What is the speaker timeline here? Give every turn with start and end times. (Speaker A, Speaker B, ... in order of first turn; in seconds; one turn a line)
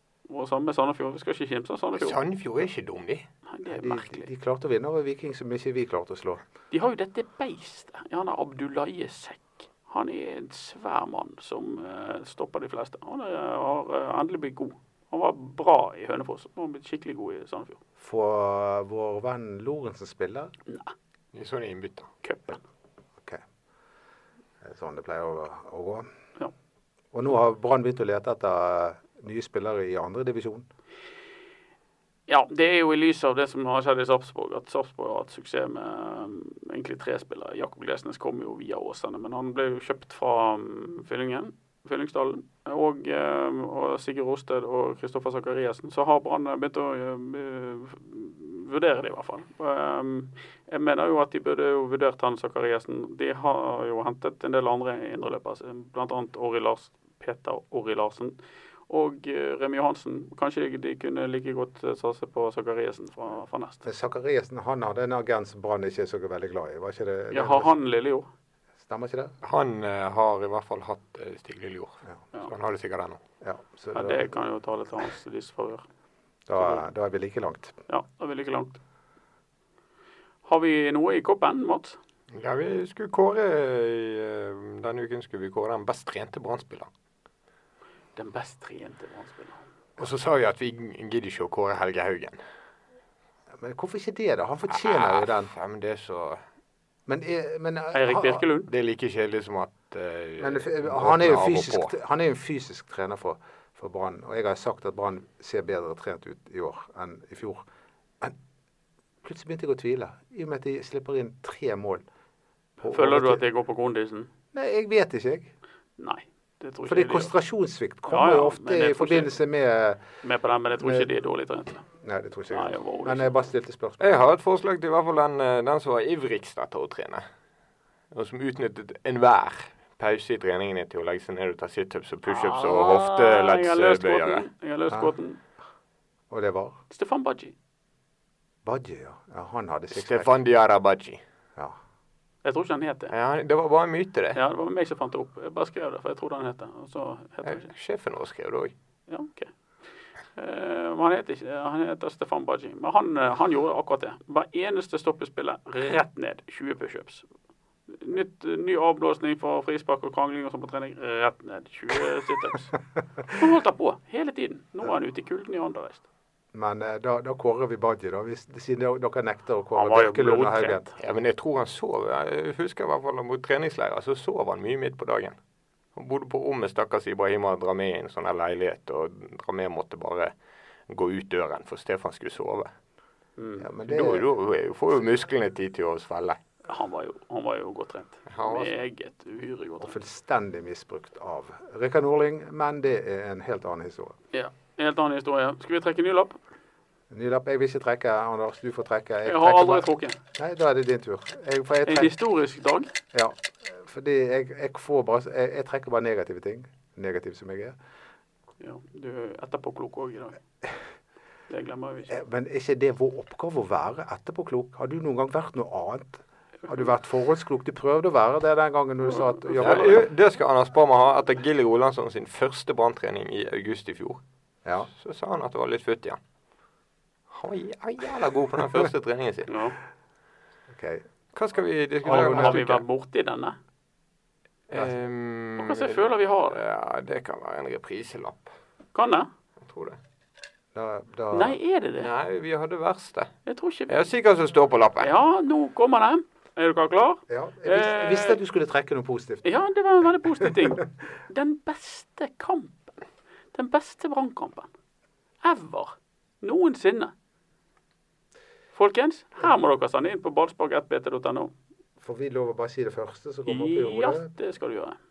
Speaker A: 0.3-2.2
Speaker B: 1.9-3.3
Speaker A: 3.5-4.3
Speaker C: 3.7-6.4
Speaker A: 6.7-17.8
Speaker C: 18.0-20.5
Speaker A: 20.7-20.9
Speaker B: 21.3-22.1
Speaker A: 22.2-22.6
Speaker C: 24.6-26.1
Speaker C: 27.1-30.7
Speaker A: 32.3-58.4
Speaker A: 58.9-63.9
Speaker C: 63.9-67.8
Speaker A: 67.3-68.3
Speaker C: 68.8-69.3
Speaker B: 69.4-73.2
Speaker C: 73.4-74.3
Speaker A: 73.9-75.8
Speaker C: 76.5-77.8
Speaker A: 77.9-78.8
Speaker A: 80.5-82.0
Speaker B: 82.3-86.9
Speaker A: 88.2-89.6
Speaker B: 90.0-92.4
Speaker C: 93.6-95.5
Speaker B: 94.7-96.4
Speaker C: 97.1-98.5
Speaker A: 97.9-98.7
Speaker B: 98.7-101.9
Speaker C: 100.4-107.7
Speaker C: 109.2-112.0
Speaker C: 112.8-113.4
Speaker A: 112.9-114.3
Speaker C: 114.5-115.5
Speaker A: 116.0-117.3
Speaker C: 116.9-120.0
Speaker A: 118.1-119.3
Speaker A: 120.2-121.8
Speaker C: 120.8-121.1
Speaker C: 122.0-124.2
Speaker A: 122.5-123.3
Speaker B: 124.0-127.2
Speaker B: 128.1-134.5
Speaker A: 132.3-135.4
Speaker C: 136.3-136.8
Speaker A: 136.9-137.5
Speaker C: 138.7-140.3
Speaker B: 139.9-141.2
Speaker A: 142.4-143.1
Speaker B: 143.1-144.4
Speaker A: 144.3-147.7
Speaker B: 147.4-148.7
Speaker A: 149.1-149.5
Speaker A: 150.4-157.2
Speaker A: 157.9-162.8
Speaker A: 163.3-166.0
Speaker C: 166.5-170.9
Speaker A: 169.8-170.9
Speaker B: 171.0-175.4
Speaker B: 175.9-180.3
Speaker B: 180.9-182.7
Speaker A: 183.4-183.7
Speaker C: 183.6-184.2
Speaker B: 183.9-186.4
Speaker A: 186.7-189.9
Speaker B: 188.3-188.7
Speaker C: 189.8-194.2
Speaker A: 194.3-196.4
Speaker C: 197.1-202.2
Speaker A: 199.3-200.2
Speaker A: 201.9-202.9
Speaker C: 203.1-207.8
Speaker A: 208.6-210.4
Speaker A: 211.5-212.2
Speaker C: 212.1-220.1
Speaker A: 219.1-219.8
Speaker B: 219.6-224.2
Speaker B: 224.9-226.2
Speaker B: 227.3-229.6
Speaker A: 229.5-229.8
Speaker C: 230.7-231.0
Speaker B: 231.3-232.8
Speaker A: 232.1-233.6
Speaker C: 232.1-232.6
Speaker B: 234.7-238.5
Speaker A: 235.6-236.6
Speaker A: 238.9-239.3
Speaker B: 239.6-240.0
Speaker C: 240.8-241.6
Speaker A: 241.3-242.1
Speaker B: 242.0-243.3
Speaker A: 243.5-244.1
Speaker B: 243.9-245.1
Speaker A: 245.0-248.4
Speaker C: 247.3-249.4
Speaker A: 249.4-252.9
Speaker A: 253.5-254.7
Speaker A: 255.4-257.1
Speaker A: 258.7-261.5
Speaker C: 262.0-264.3
Speaker A: 263.5-265.0